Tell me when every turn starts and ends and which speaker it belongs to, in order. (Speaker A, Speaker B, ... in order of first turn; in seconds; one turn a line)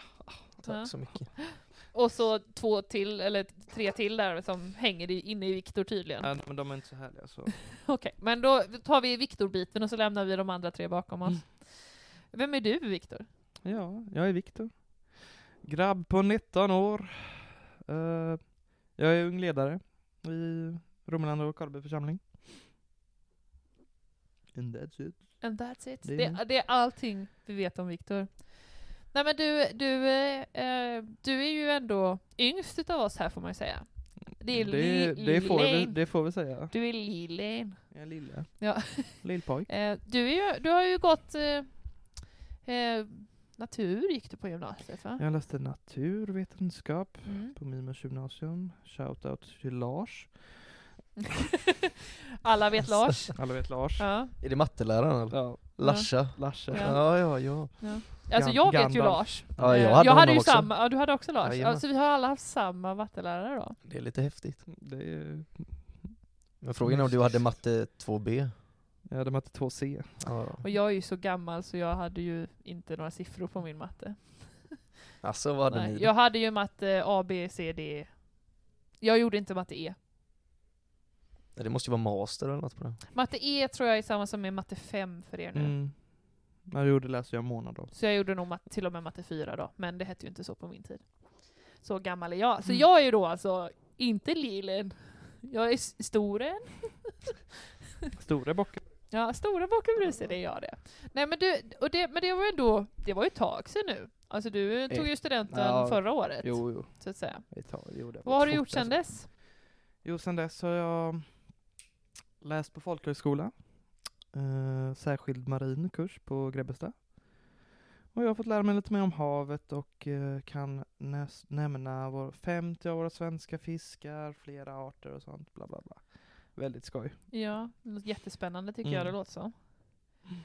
Speaker A: 0.6-1.5
Speaker B: 0.7-6.3
Speaker C: 6.2-7.7
Speaker B: 7.7-13.3
Speaker C: 13.6-22.5
Speaker C: 24.5-26.4
Speaker B: 25.4-45.2
Speaker C: 34.3-36.7
Speaker C: 37.9-39.7
Speaker C: 45.2-50.7
Speaker B: 47.2-47.5
Speaker B: 51.2-51.6
Speaker B: 52.4-54.3
Speaker C: 53.3-54.3
Speaker A: 54.4-58.0
Speaker C: 55.3-57.1
Speaker B: 55.8-63.8
Speaker C: 57.7-60.0
Speaker A: 59.6-61.8
Speaker A: 63.8-64.7
Speaker C: 64.7-66.2
Speaker A: 66.6-68.5
Speaker C: 66.8-67.2
Speaker C: 69.0-70.3
Speaker A: 70.2-70.6
Speaker B: 70.6-74.9
Speaker A: 75.2-76.1
Speaker B: 75.7-80.0
Speaker A: 81.5-83.0
Speaker B: 83.1-85.7
Speaker C: 85.5-87.9
Speaker B: 87.9-97.3
Speaker C: 98.1-98.9
Speaker B: 99.1-109.3
Speaker C: 104.9-111.5
Speaker C: 112.4-117.6
Speaker C: 118.1-127.2
Speaker B: 127.3-130.2
Speaker C: 128.8-129.2